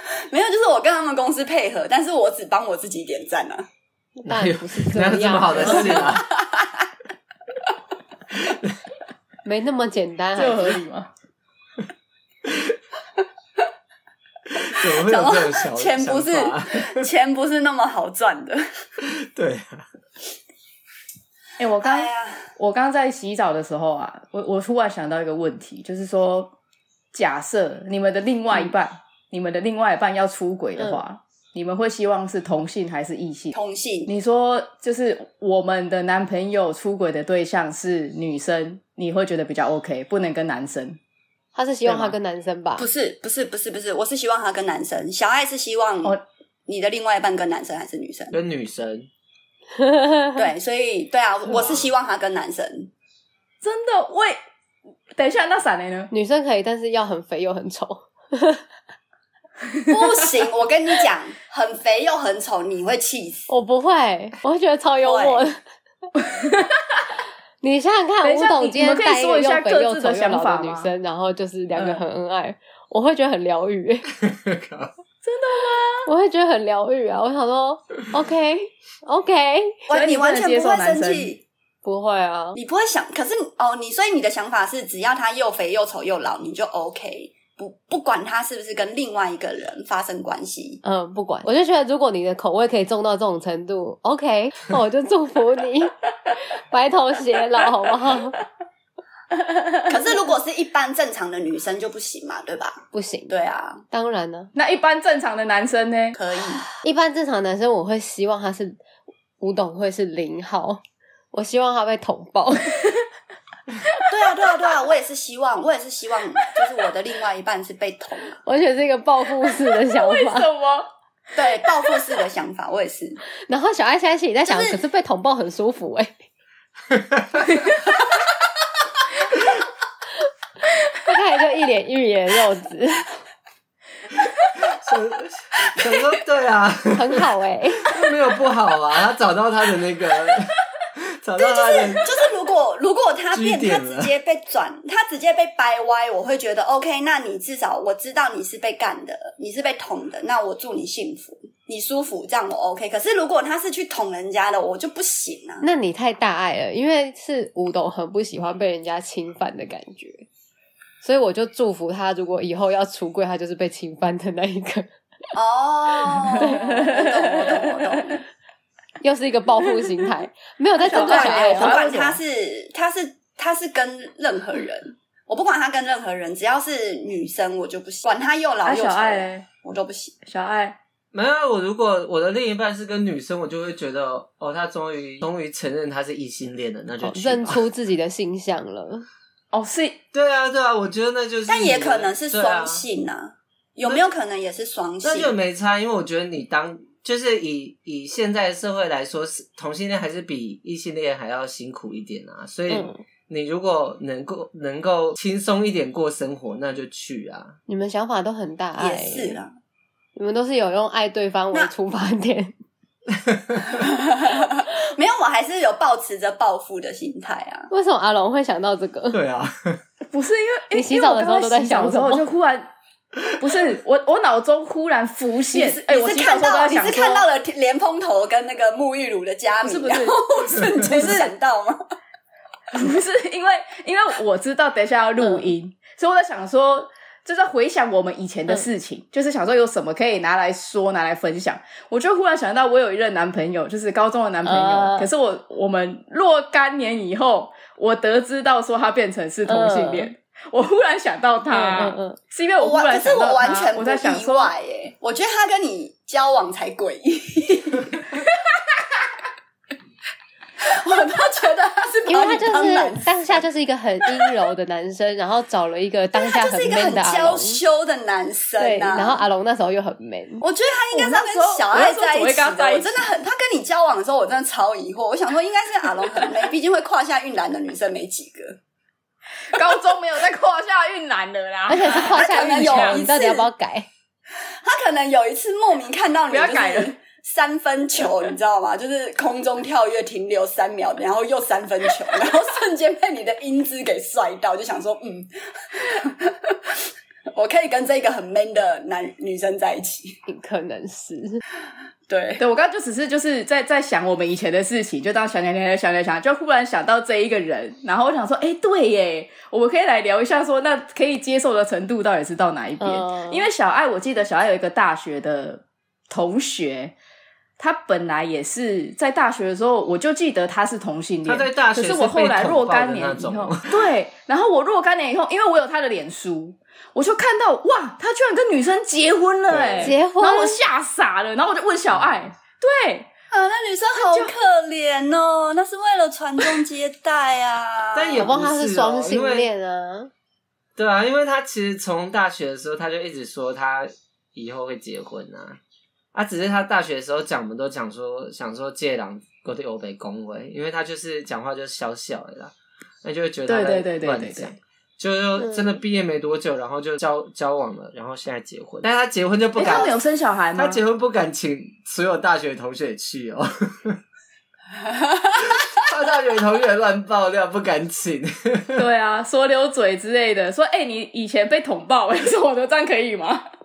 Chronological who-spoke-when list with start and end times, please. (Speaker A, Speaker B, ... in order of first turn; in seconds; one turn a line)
Speaker A: 0.3-3.7
Speaker B: 4.2-6.1
Speaker C: 4.2-6.3
Speaker D: 5.7-5.9
Speaker A: 6.0-6.8
Speaker C: 8.3-8.8
Speaker B: 9.4-10.8
Speaker D: 10.4-11.1
Speaker C: 12.4-12.7
Speaker C: 14.5-17.1
Speaker A: 14.8-18.6
Speaker C: 19.0-19.9
Speaker D: 21.6-26.6
Speaker A: 21.8-22.5
Speaker D: 27.1-33.5
Speaker A: 33.5-34.1
Speaker D: 34.1-41.0
Speaker B: 41.5-42.9
Speaker D: 41.9-42.1
Speaker A: 42.8-48.4
Speaker C: 48.3-49.1
Speaker B: 49.8-50.4
Speaker A: 50.4-52.9
Speaker C: 51.5-51.9
Speaker D: 53.6-54.4
Speaker D: 55.1-56.1
Speaker B: 56.1-58.6
Speaker A: 59.9-63.5
Speaker B: 63.5-65.6
Speaker A: 65.0-65.5
Speaker D: 66.2-67.0
Speaker B: 67.6-74.1
Speaker D: 68.2-70.9
Speaker D: 71.8-72.0
Speaker C: 74.2-74.9
Speaker D: 75.2-76.1
Speaker B: 76.0-79.9
Speaker A: 79.9-81.4
Speaker D: 79.9-81.3
Speaker B: 81.8-82.6
Speaker A: 82.5-90.8
Speaker B: 90.8-98.4
Speaker A: 99.9-103.8
Speaker B: 102.9-103.3
Speaker B: 103.9-104.5
Speaker D: 104.5-106.2
Speaker A: 106.1-106.7
Speaker B: 106.8-108.8
Speaker B: 109.4-110.8
Speaker B: 111.3-112.9
Speaker A: 114.1-118.4
Speaker B: 118.4-120.5
Speaker D: 119.7-120.9
Speaker A: 121.4-123.2
Speaker B: 123.5-126.2
Speaker A: 124.5-124.8
Speaker C: 126.9-127.5
Speaker B: 131.0-133.1
Speaker C: 134.5-137.2
Speaker B: 136.9-137.9
Speaker C: 137.8-142.1
Speaker A: 141.4-155.6
Speaker C: 143.3-144.1
Speaker B: 155.6-160.3
Speaker B: 161.0-164.9
Speaker A: 165.3-168.2
Speaker D: 166.3-168.0
Speaker B: 166.4-167.0
Speaker B: 169.0-171.8
Speaker D: 170.8-172.2
Speaker A: 170.8-180.2
Speaker D: 178.6-179.4
Speaker D: 180.2-180.8
Speaker C: 181.1-187.6
Speaker B: 187.0-189.1
Speaker D: 189.5-190.0
Speaker C: 190.1-192.8
Speaker A: 191.5-195.3
Speaker C: 195.0-207.6
Speaker B: 202.7-203.0
Speaker B: 207.7-209.4
Speaker A: 208.8-209.5
Speaker B: 210.1-212.5
Speaker C: 213.2-213.7
Speaker A: 213.7-217.7
Speaker B: 217.7-219.2
Speaker C: 219.1-219.8
Speaker D: 220.1-222.7
Speaker B: 220.7-222.2
Speaker D: 223.4-227.2
Speaker A: 225.5-231.8
Speaker D: 229.6-231.3
Speaker C: 230.6-230.8
Speaker D: 232.7-254.5
Speaker B: 235.2-235.5
Speaker B: 244.4-245.1
Speaker B: 249.4-250.1
Speaker B: 251.5-252.2
Speaker A: 252.6-258.1
Speaker A: 260.6-263.4
Speaker B: 262.1-267.6
Speaker A: 266.1-269.2
Speaker B: 268.6-270.4
Speaker A: 270.4-278.6
Speaker D: 270.9-273.1
Speaker D: 279.5-283.0
Speaker B: 281.7-283.9
Speaker A: 281.9-283.5
Speaker A: 284.6-300.2
Speaker D: 286.3-286.9
Speaker B: 300.3-301.4
Speaker A: 302.1-302.4
Speaker D: 302.4-316.9
Speaker B: 312.8-313.5
Speaker D: 317.6-333.1
Speaker C: 321.2-323.9
Speaker C: 329.5-330.0
Speaker B: 329.8-330.6
Speaker C: 331.9-332.2
Speaker A: 333.3-338.3
Speaker D: 334.0-334.3
Speaker C: 337.9-339.5
Speaker B: 338.1-340.1
Speaker C: 340.8-345.6
Speaker C: 346.1-360.0
Speaker D: 353.5-354.5
Speaker B: 355.4-355.8
Speaker D: 359.6-360.8
Speaker A: 359.6-359.9
Speaker C: 360.6-364.0
Speaker A: 364.8-365.6
Speaker C: 365.7-368.8
Speaker D: 368.8-373.5